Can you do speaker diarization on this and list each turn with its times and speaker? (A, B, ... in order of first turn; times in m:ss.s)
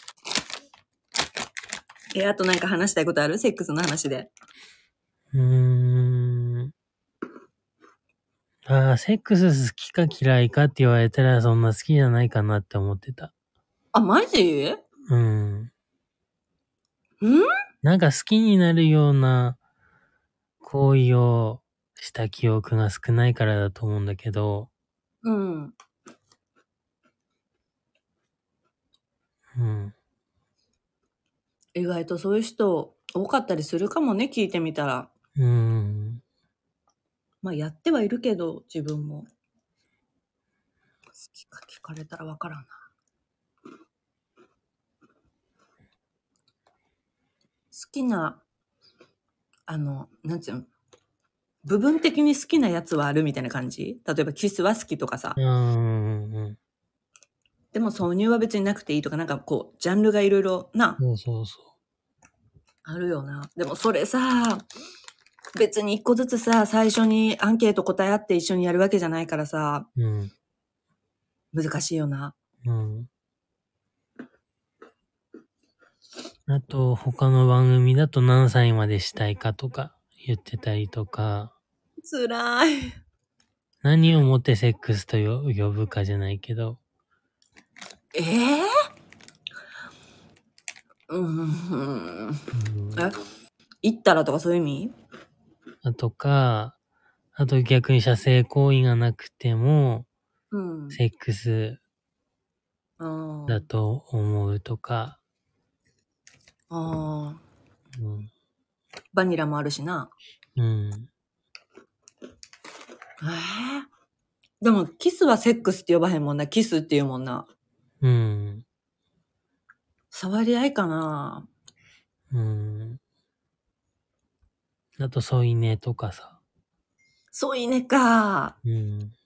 0:02.1-0:04.3 A
0:05.3-0:06.7 B
0:08.6-0:13.3 B
0:13.9-0:14.8 A
0:15.1-0:15.7 B
0:17.2-0:17.5 A
0:17.8-0:19.6 B
0:20.6-0:24.7 B
0:25.2-0:25.7 A
0:29.5-0:29.9 B
0:31.7-0:35.1 A
0:35.4-0:36.2 B
0:37.4-0:39.3 A
0:41.2-0:42.7 A
0:47.7-0:48.4 A
0:49.7-0:50.7 A
0:51.6-0:55.4 A
0:55.4-0:56.6 B
0:57.7-1:01.0 A
1:01.0-1:01.7 B
1:02.8-1:04.6 A
1:05.5-1:09.9 A
1:10.0-1:10.3 B
1:11.5-1:12.3 A
1:12.6-1:13.1 B
1:16.5-1:21.5 B
1:22.0-1:23.0 A
1:23.8-1:26.8 B
1:28.1-1:28.7 A
1:31.1-1:32.4 A
1:32.5-1:33.1 B
1:33.8-1:34.9 A
1:35.8-1:36.8 B
1:37.3-1:40.1 B
1:40.5-1:41.0 A
1:40.9-1:41.8 B
1:43.0-1:43.7 A
1:43.5-1:45.2 B
1:46.7-1:47.4 A
1:48.0-1:48.3 B
1:49.1-1:50.1 A
1:50.6-1:51.1 B
1:53.2-1:53.9 A
1:54.6-1:57.5 A
1:58.0-1:58.6 B
2:00.1-2:01.5 A
2:02.3-2:03.0 B
2:05.0-2:06.4 B
2:07.3-2:08.6 A
2:08.6-2:09.1 B